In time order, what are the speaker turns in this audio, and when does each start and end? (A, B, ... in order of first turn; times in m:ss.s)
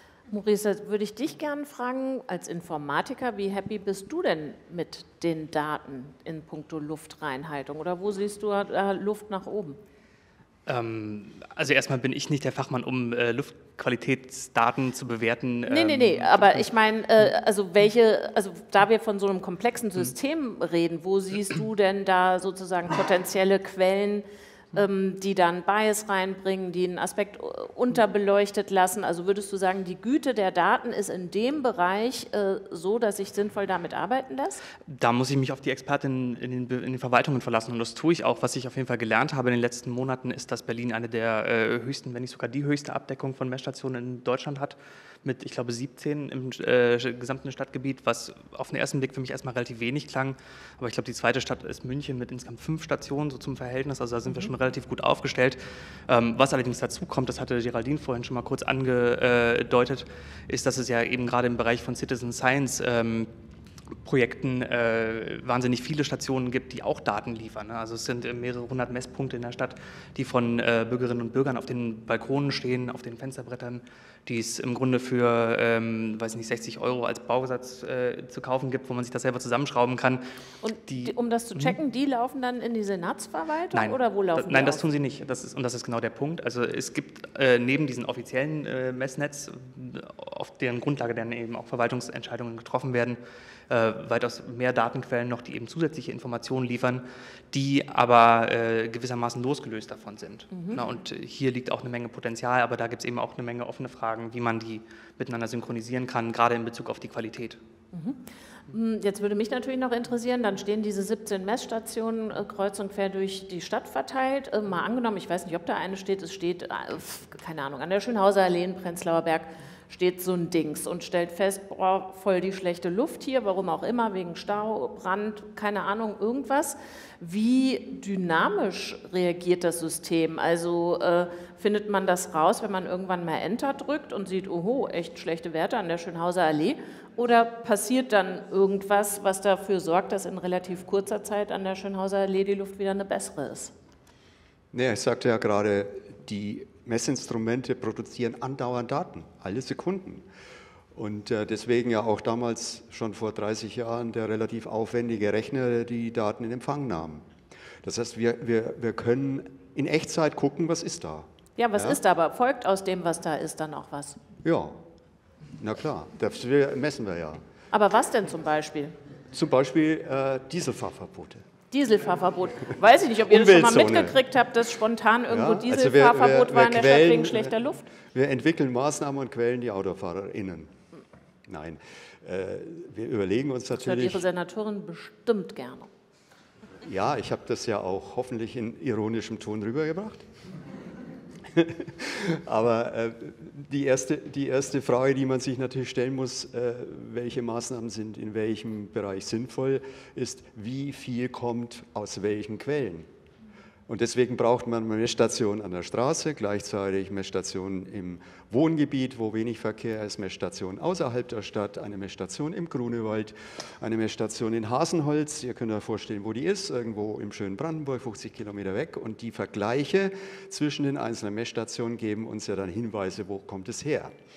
0:00.3-0:09.8 A
0:10.6-0:16.7 B
0:15.6-0:34.6 A
0:34.8-1:03.3 B
1:04.0-1:20.2 B
1:20.6-1:24.9 A
1:20.9-1:21.7 B
1:23.7-1:47.6 B
1:40.5-1:40.8 A
1:47.9-2:23.7 A
2:24.7-2:30.3 C
2:30.9-2:37.2 C
2:37.8-2:42.0 C
2:41.6-2:44.2 A
2:44.4-2:44.8 C
2:45.6-2:47.4 C
2:47.7-2:48.9 A
2:49.3-2:51.4 C
2:51.7-2:57.8 A
2:53.3-2:54.2 C
2:55.3-2:57.5 C
2:58.1-3:00.7 C
3:01.5-3:04.2 C
3:03.8-3:05.9 A
3:06.8-3:10.2 C
3:11.5-3:23.1 C
3:23.9-3:44.1 C